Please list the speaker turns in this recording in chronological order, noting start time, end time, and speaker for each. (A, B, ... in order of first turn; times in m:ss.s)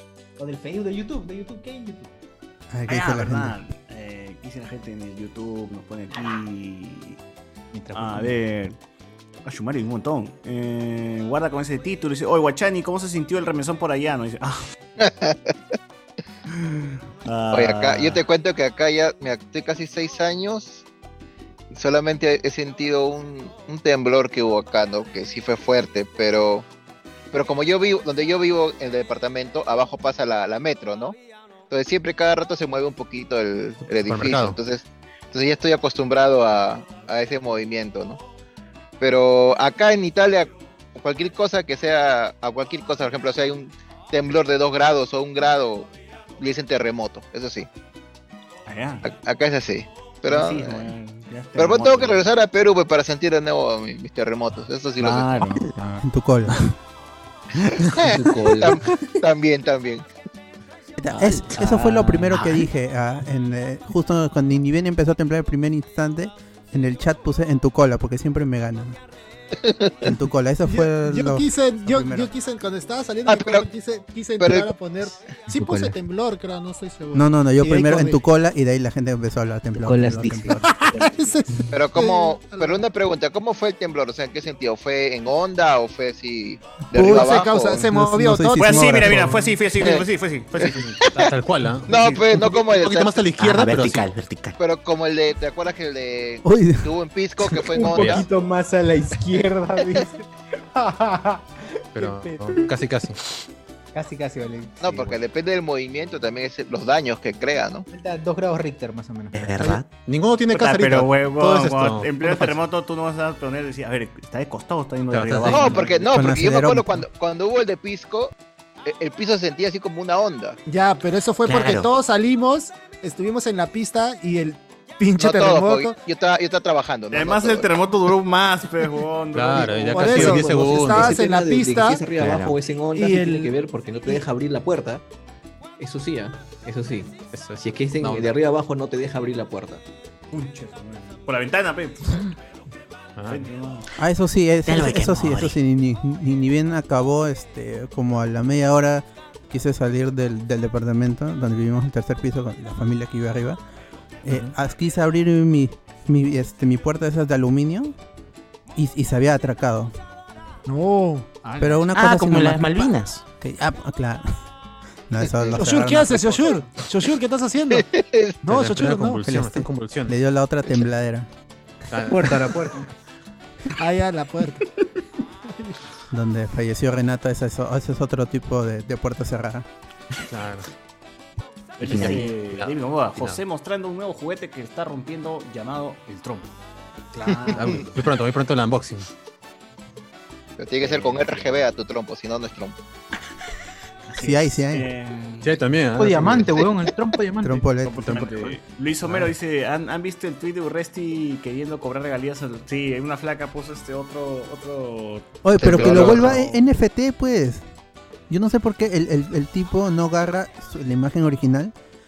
0:00.4-0:02.1 A
0:02.7-0:03.6 B
0:02.9-0:07.2 C
0:07.9-0:08.8 C
0:09.4-0:14.6 C
0:15.0-0:15.5 D
0:16.5-0:18.2 C
0:17.5-0:20.8 D
0:21.7-0:26.6 D
0:27.3-0:31.2 D
0:31.7-0:38.2 D
0:33.9-0:34.6 E
0:39.0-0:47.7 D
0:48.7-0:49.1 C
0:49.0-0:50.9 D
0:50.2-0:52.2 C
0:51.6-0:55.6 D
0:55.0-0:55.7 C
0:56.0-0:56.7 B
0:57.8-1:00.0 D
0:57.9-0:58.9 F
1:01.0-1:09.0 B
1:01.1-1:02.4 F
1:02.3-1:02.6 G
1:09.6-1:10.0 D
1:10.0-1:12.3 B
1:10.7-1:18.2 H
1:13.3-1:13.6 D
1:14.4-1:14.7 D
1:15.5-1:15.9 F
1:17.1-1:20.8 B
1:19.8-1:21.2 F
1:20.6-1:22.8 H
1:21.7-1:27.9 D
1:26.9-1:29.5 B
1:27.0-1:29.3 H
1:28.6-1:30.9 C
1:29.8-1:30.0 D
1:30.6-1:31.3 D
1:30.6-1:34.1 E
1:31.9-1:33.3 D
1:33.4-1:34.6 G
1:34.6-1:38.2 D
1:36.4-1:36.9 B
1:37.7-1:42.7 A
1:37.9-1:38.2 E
1:41.9-1:43.2 E
1:43.9-1:45.2 A
1:44.8-1:47.8 D
1:47.9-1:49.7 A
1:49.3-1:49.9 G
1:50.0-1:52.6 E
1:50.5-1:56.1 C
1:55.1-1:55.8 E
1:55.4-1:58.3 D
1:56.1-1:57.1 B
1:58.8-2:00.6 D
2:00.6-2:06.0 H
2:01.4-2:01.9 G
2:05.2-2:07.7 D
2:07.1-2:10.4 C
2:09.3-2:11.2 E
2:09.9-2:12.0 H
2:10.1-2:15.0 F
2:12.2-2:12.6 G
2:12.9-2:13.5 H
2:15.8-2:19.8 F
2:17.3-2:18.3 E
2:20.3-2:22.3 C
2:23.2-2:23.5 E
2:23.3-2:23.9 C
2:24.0-2:33.6 B
2:24.6-2:25.6 G
2:34.2-2:37.9 B
2:34.3-2:34.5 E
2:38.7-2:39.9 B
2:40.6-2:41.9 H
2:41.6-2:44.3 B
2:41.9-2:43.2 G
2:45.1-2:46.6 B
2:45.5-2:47.9 H
2:47.7-2:48.4 D
2:48.4-2:49.2 H
2:48.5-2:50.2 E
2:49.2-2:51.3 B
2:51.9-2:52.6 E
2:52.1-2:52.9 A
2:53.8-2:54.7 H
2:55.5-2:55.8 H
2:56.1-2:59.7 B
3:00.3-3:00.7 E
3:01.8-3:06.2 C
3:01.8-3:03.4 E
3:01.8-3:02.2 G
3:06.1-3:06.5 E
3:07.1-3:07.9 C
3:07.3-3:07.8 D
3:07.5-3:09.1 E
3:10.6-3:12.8 D
3:10.8-3:11.7 C
3:14.1-3:15.6 C
3:14.2-3:14.9 B
3:15.4-3:16.5 E
3:16.0-3:17.7 A
3:17.4-3:18.2 B
3:17.8-3:26.6 C
3:18.0-3:19.3 E
3:25.4-3:27.6 B
3:25.6-3:26.4 D
3:28.3-3:31.7 B